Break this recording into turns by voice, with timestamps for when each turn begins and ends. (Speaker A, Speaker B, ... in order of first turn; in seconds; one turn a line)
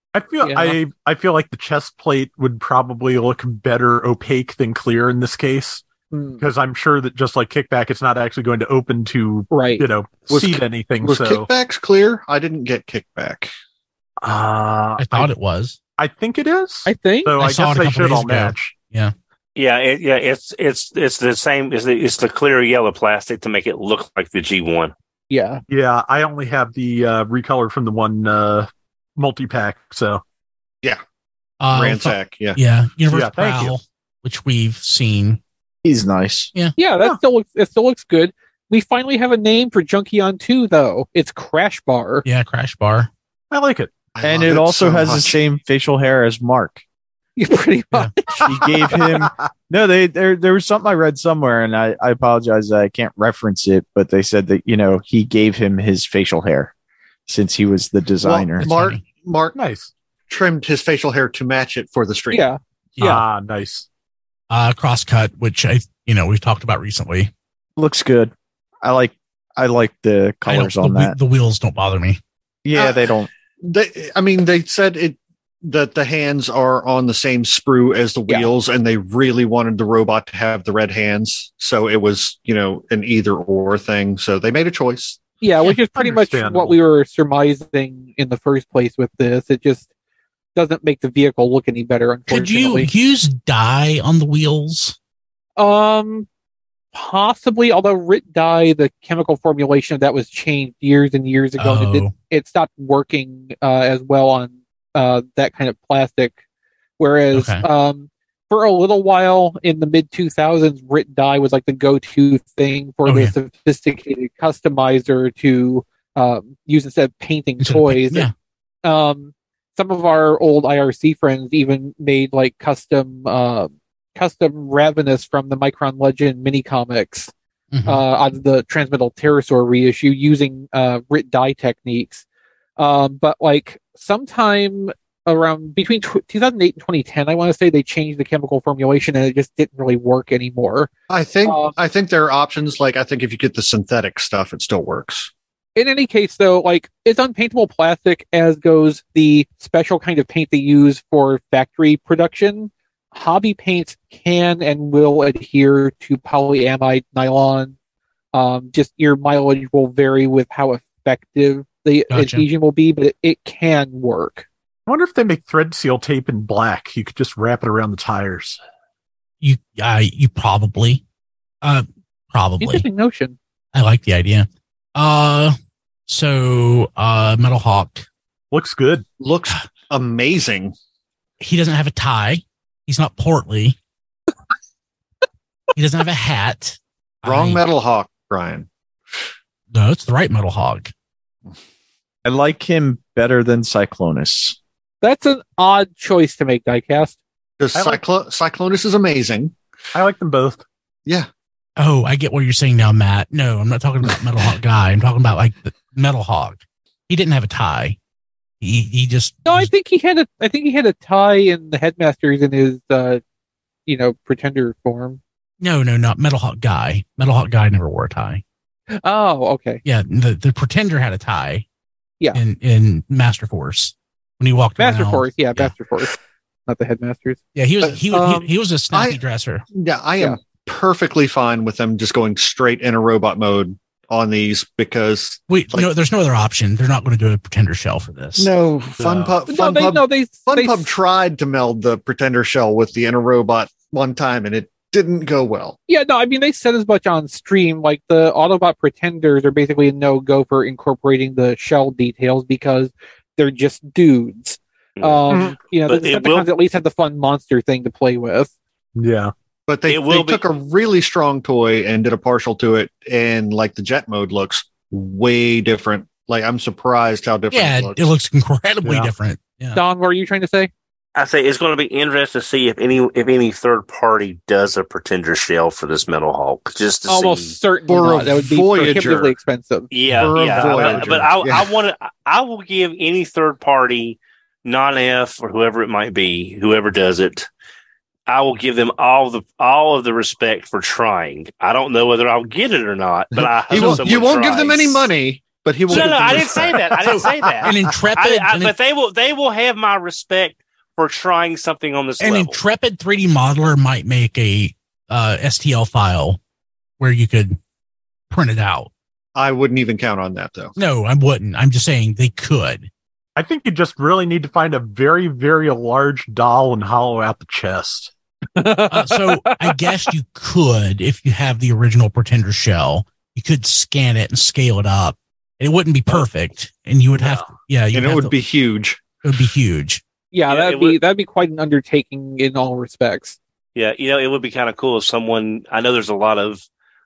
Speaker A: 0.1-5.8
Speaker B: 0.4-0.8
Speaker B: 6.1-6.5
Speaker A: 6.4-11.5
Speaker B: 9.5-9.8
Speaker C: 10.3-13.5
Speaker A: 14.2-15.3
Speaker D: 15.0-15.8
Speaker A: 16.0-18.7
Speaker B: 16.9-17.3
Speaker D: 17.4-19.1
Speaker E: 19.6-24.9
Speaker B: 25.3-25.6
Speaker A: 25.7-30.2
Speaker D: 31.6-35.4
Speaker C: 31.7-32.6
Speaker A: 33.1-33.7
Speaker F: 35.8-36.5
Speaker B: 36.8-42.2
Speaker D: 42.2-43.1
Speaker A: 43.5-43.9
Speaker C: 44.1-45.4
Speaker F: 44.2-46.8
Speaker B: 47.4-49.0
Speaker F: 48.4-56.7
Speaker F: 57.3-58.7
Speaker C: 58.2-59.6
Speaker D: 58.6-59.0
Speaker A: 59.5-59.9
Speaker C: 60.3-62.5
Speaker B: 62.3-63.2
Speaker D: 63.0-63.2
Speaker A: 63.0-63.9
Speaker D: 64.5-67.3
Speaker F: 67.8-71.1
Speaker D: 70.5-72.2
Speaker F: 72.6-73.3
Speaker C: 72.8-85.2
Speaker B: 85.4-89.8
Speaker A: 86.0-86.8
Speaker B: 90.5-92.9
Speaker D: 92.3-95.0
Speaker B: 95.6-96.3
Speaker B: 96.9-106.3
Speaker D: 101.6-102.1
Speaker B: 107.0-118.3
Speaker D: 107.3-107.6
Speaker D: 113.0-113.3
Speaker D: 117.6-118.3
Speaker B: 118.8-127.3
Speaker D: 127.7-128.0
Speaker B: 127.8-132.2
Speaker B: 132.8-140.9
Speaker C: 141.1-145.3
Speaker B: 141.4-141.8
Speaker B: 145.8-157.7
Speaker B: 158.3-164.4
Speaker D: 162.1-162.4
Speaker A: 164.9-168.6
Speaker D: 169.4-171.0
Speaker D: 171.6-172.8
Speaker B: 172.6-173.3
Speaker D: 173.7-175.5
Speaker D: 176.1-178.1
Speaker A: 178.5-179.0
Speaker C: 179.2-180.7
Speaker D: 181.4-183.8
Speaker D: 185.8-187.6
Speaker C: 187.2-188.7
Speaker D: 189.7-190.9
Speaker F: 192.2-194.6
Speaker B: 195.0-197.2
Speaker C: 197.6-199.5
Speaker A: 197.7-198.0
Speaker A: 199.9-200.6
Speaker D: 201.8-208.0
Speaker D: 208.6-209.7
Speaker B: 209.4-213.2
Speaker B: 213.9-215.2
Speaker D: 215.6-218.4
Speaker B: 218.9-219.8
Speaker D: 219.8-221.6
Speaker D: 222.3-225.7
Speaker B: 224.8-226.1
Speaker B: 226.7-227.4
Speaker D: 227.5-229.6
Speaker C: 227.8-228.2
Speaker B: 228.1-228.5
Speaker C: 228.9-229.2
Speaker C: 229.7-235.9
Speaker D: 235.5-238.5
Speaker C: 238.4-245.8
Speaker A: 239.0-239.4
Speaker B: 239.5-240.9
Speaker B: 245.9-258.5
Speaker E: 255.0-256.5
Speaker A: 259.0-259.3
Speaker C: 259.7-268.1
Speaker E: 259.9-260.4
Speaker D: 267.5-269.8
Speaker A: 268.8-269.1
Speaker B: 269.7-270.7
Speaker E: 271.1-277.5
Speaker B: 277.1-279.9
Speaker C: 277.9-279.3
Speaker E: 279.9-287.5
Speaker A: 280.1-281.4
Speaker C: 280.1-281.7
Speaker E: 288.3-295.1
Speaker C: 293.3-297.8
Speaker A: 293.7-294.3
Speaker E: 295.9-302.6
Speaker D: 295.9-298.7
Speaker D: 302.2-306.4
Speaker D: 307.0-307.6
Speaker D: 308.3-308.9
Speaker C: 309.4-310.7
Speaker D: 310.8-312.9
Speaker A: 313.4-318.1
Speaker B: 318.6-320.0
Speaker D: 318.9-328.3
Speaker A: 327.1-327.5
Speaker C: 327.9-329.1
Speaker D: 329.2-330.0
Speaker B: 330.3-333.4
Speaker E: 330.5-331.0
Speaker E: 333.7-336.6